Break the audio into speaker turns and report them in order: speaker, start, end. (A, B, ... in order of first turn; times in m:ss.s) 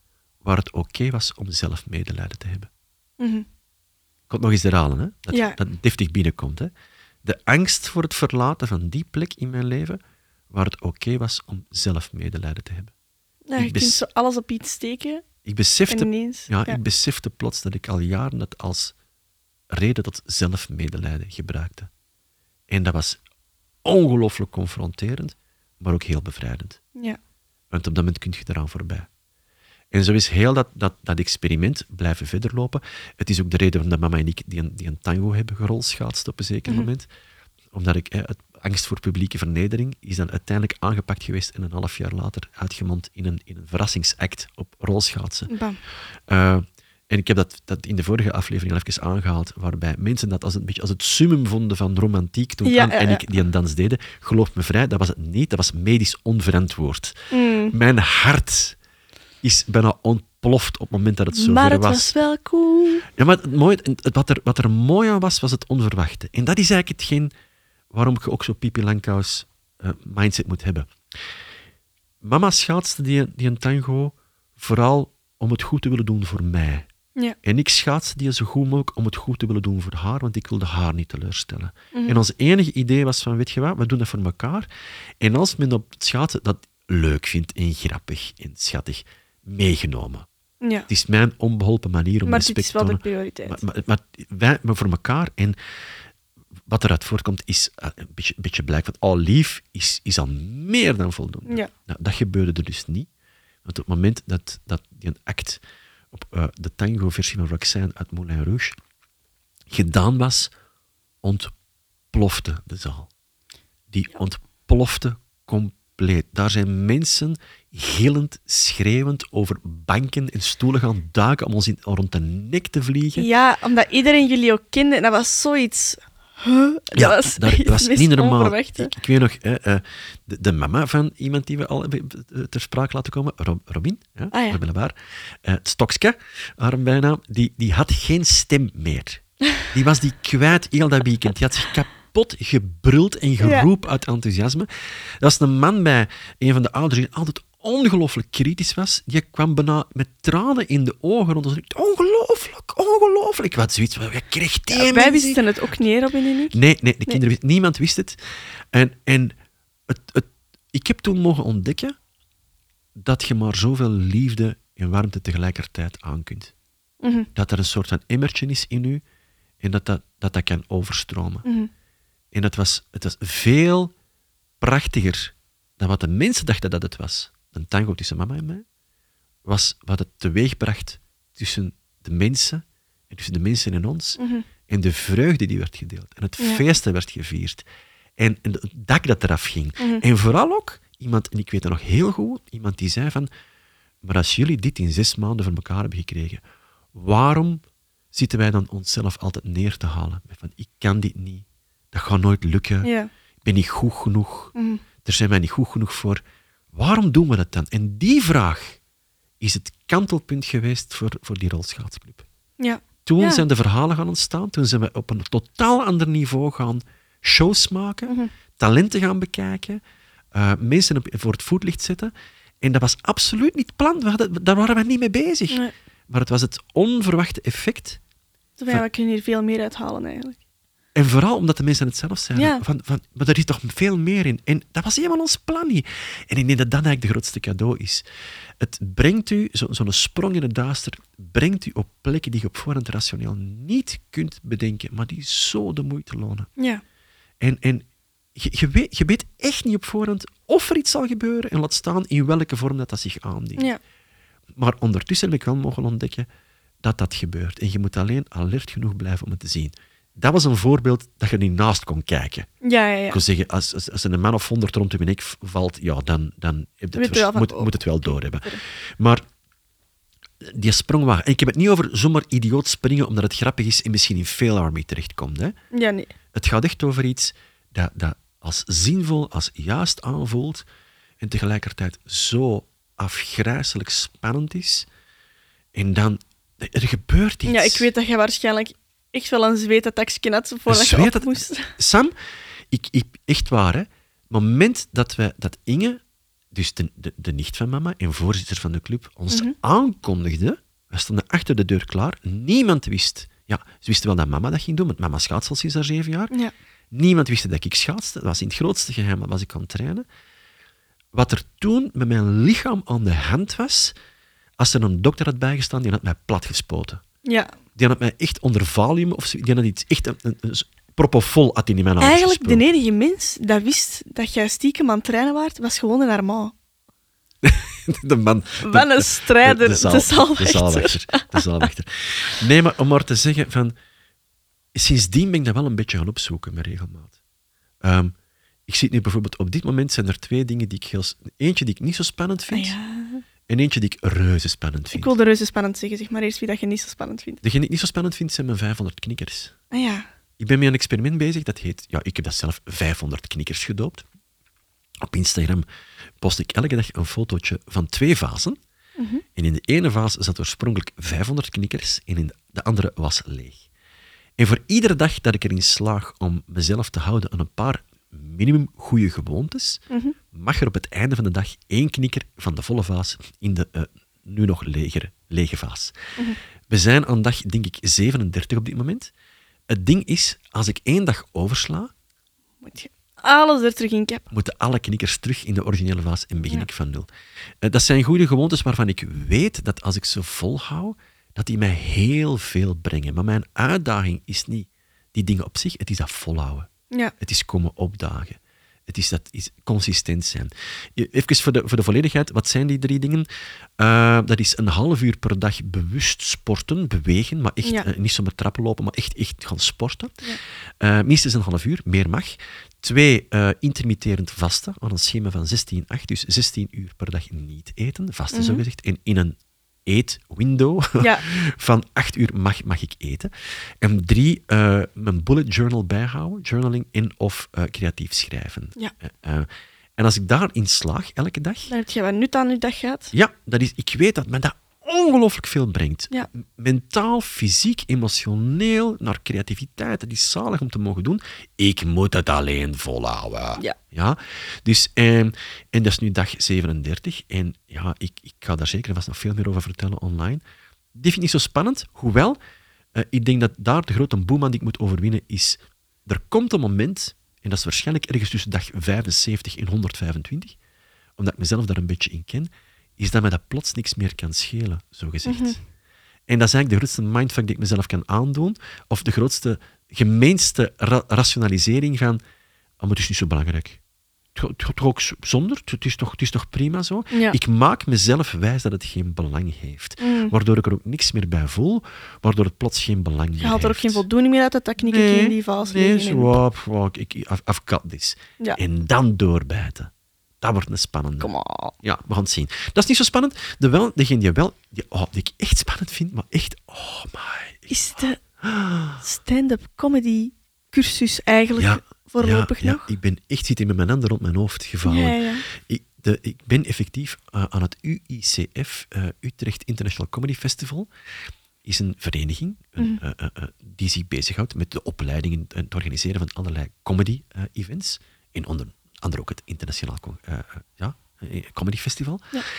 0:00.4-0:02.7 A
0:03.2-0:03.5 B
0:04.3-0:06.7 A
0:05.3-0:05.6 B
0:07.2-0:12.9 A
0:13.5-0:15.2 B
0:13.6-0:14.0 A
0:15.4-0:18.9 A
0:15.9-0:16.8 B
0:19.7-0:21.9 A
0:22.7-0:23.2 A
0:23.8-0:26.8 A
0:27.7-0:29.1 A
0:29.9-0:37.1 A
0:37.7-0:45.5 A
0:45.5-0:45.8 B
0:46.3-0:58.8 A
0:52.6-0:53.2 B
0:57.3-0:57.8 B
0:59.4-1:02.2 A
1:01.3-1:03.1 B
1:03.2-1:07.3 A
1:07.9-1:10.9 A
1:12.2-1:16.9 A
1:17.4-1:24.7 A
1:21.9-1:22.2 B
1:25.2-1:30.3 A
1:30.6-1:30.9 B
1:30.9-1:35.6 A
1:32.2-1:33.6 B
1:36.7-1:43.1 A
1:43.6-1:45.6 A
1:46.1-1:48.8 A
1:49.7-1:50.5 A
1:51.2-1:51.5 A
1:52.1-1:53.1 A
1:53.9-2:03.3 A
2:03.2-2:08.9 B
2:07.0-2:24.7 A
2:14.3-2:14.6 B
2:23.4-2:23.7 B
2:25.2-2:35.4 A
2:34.7-2:36.6 B
2:36.5-2:38.2 A
2:38.7-2:39.4 A
2:39.9-2:41.9 A
2:43.0-2:46.5 A
2:47.0-2:47.3 B
2:47.4-2:49.0 A
2:49.6-2:51.5 A
2:51.4-2:51.7 B
2:52.3-2:53.9 A
2:54.6-2:58.6 A
2:59.4-3:07.6 A
3:04.2-3:04.5 B
3:08.2-3:13.3 A
3:14.0-3:16.4 A
3:16.9-3:22.9 A
3:22.8-3:23.1 B
3:23.4-3:24.5 A
3:24.6-3:24.8 B
3:25.0-3:26.2 A
3:26.7-3:28.8 A
3:29.4-3:32.2 A
3:32.6-3:33.4 B
3:33.1-3:39.8 A
3:38.1-3:38.3 B
3:40.3-3:48.0 A
3:48.6-3:50.4 B
3:50.9-3:58.0 A
3:52.3-3:52.6 B
3:58.6-4:06.5 A
4:06.6-4:06.8 B
4:07.4-4:13.7 A
4:14.6-4:16.3 A
4:16.8-4:22.5 A
4:22.6-4:23.2 B
4:23.1-4:29.2 A
4:26.9-4:28.6 B
4:30.4-4:35.6 A
4:35.7-4:36.1 B
4:36.3-4:40.6 A
4:41.2-4:44.9 A
4:45.7-4:47.9 A
4:47.5-4:51.7 B
4:50.7-4:52.1 A
4:52.7-4:56.0 A
4:56.5-5:06.3 A
5:06.9-5:10.0 A
5:11.1-5:13.9 A
5:14.6-5:17.0 A
5:17.2-5:17.5 B
5:17.8-5:22.6 A
5:22.0-5:26.5 B
5:27.4-5:33.8 A
5:28.6-5:31.7 B
5:34.8-5:37.1 A
5:37.8-5:38.1 A
5:38.7-5:42.8 A
5:42.5-5:43.2 B
5:43.5-5:45.1 A
5:44.9-5:47.4 B
5:47.4-5:49.5 A
5:49.7-5:50.1 B
5:50.4-5:54.0 A
5:55.0-5:55.6 A
5:56.2-5:58.6 A
5:59.0-5:59.2 B
5:59.4-6:03.6 A
6:04.4-6:15.9 A
6:09.9-6:10.2 B
6:16.7-6:19.1 A
6:19.7-6:21.9 A
6:22.6-6:24.2 B
6:24.3-6:27.1 A
6:27.6-6:36.7 A
6:37.2-6:43.3 A
6:43.8-6:50.2 A
6:50.8-7:03.3 A
6:58.3-6:58.6 B
7:01.0-7:01.2 B
7:03.8-7:11.7 A
7:11.7-7:13.1 B
7:13.1-7:30.4 A
7:30.9-7:32.4 A
7:32.9-7:40.6 A
7:41.2-7:45.6 A
7:45.2-7:45.6 B
7:46.3-7:52.2 A
7:52.8-7:53.8 A
7:54.4-8:04.0 A
7:57.1-7:57.4 B
8:00.0-8:00.3 B
8:03.4-8:06.4 B
8:04.8-8:11.3 A
8:11.2-8:11.8 B
8:11.8-8:19.0 A
8:17.7-8:18.2 B
8:19.0-8:22.8 B
8:21.6-8:30.9 A
8:24.8-8:25.4 B
8:31.6-8:42.4 A